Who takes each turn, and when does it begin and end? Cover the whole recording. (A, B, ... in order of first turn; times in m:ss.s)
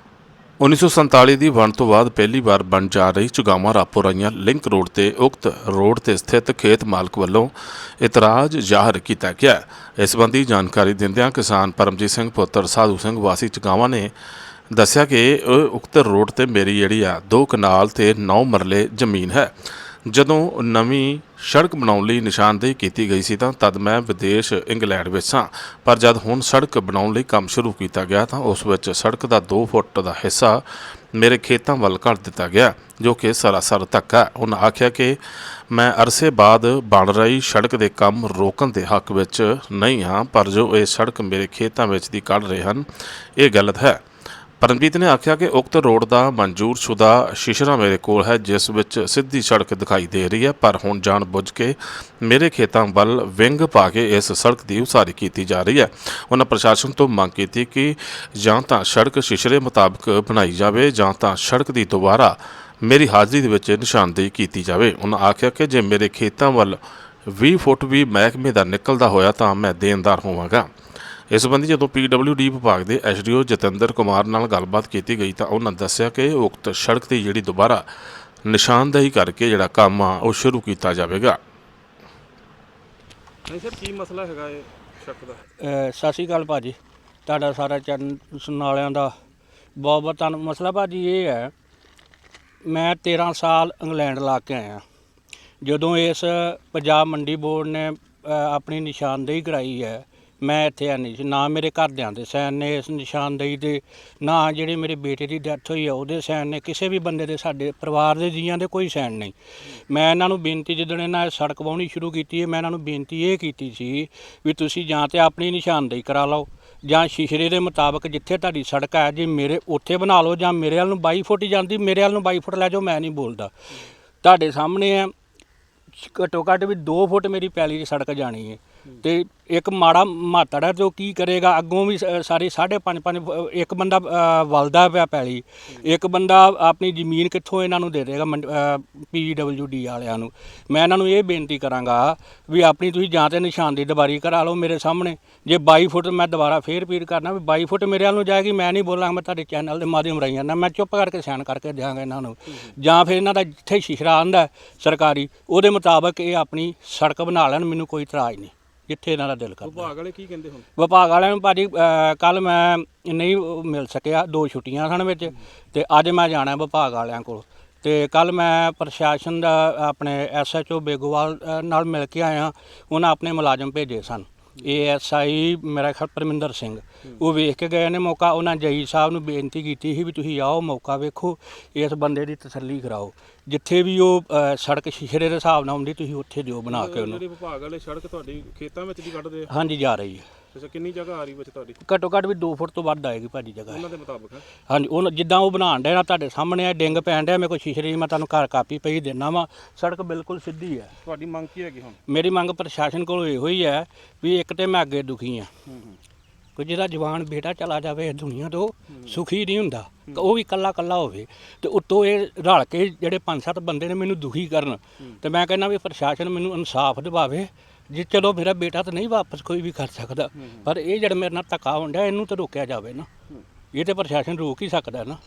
0:00.6-0:14.1 A
0:14.7-0:19.5 A
0:20.1-0:30.6 A
0:31.1-0:44.0 A
0:44.6-1:10.7 A
1:11.3-1:17.9 A
1:18.4-1:21.4 A
1:23.5-1:25.4 B
1:25.6-1:29.1 C
1:29.8-1:31.5 C
1:32.6-1:34.8 C
1:35.6-1:49.3 C
1:49.9-2:03.5 C
2:04.2-2:05.1 C
2:06.0-2:39.9 C
2:39.6-2:40.7 B
2:40.8-3:07.2 C
3:06.7-3:09.5 B
3:09.5-3:10.2 C
3:10.5-3:11.8 B
3:11.8-3:13.8 C
3:13.7-3:14.5 B
3:14.7-3:20.9 C
3:21.0-3:22.0 B
3:22.1-3:25.5 C
3:25.7-3:26.0 B
3:26.6-3:43.1 C
3:40.4-3:40.7 B
3:43.7-3:45.2 C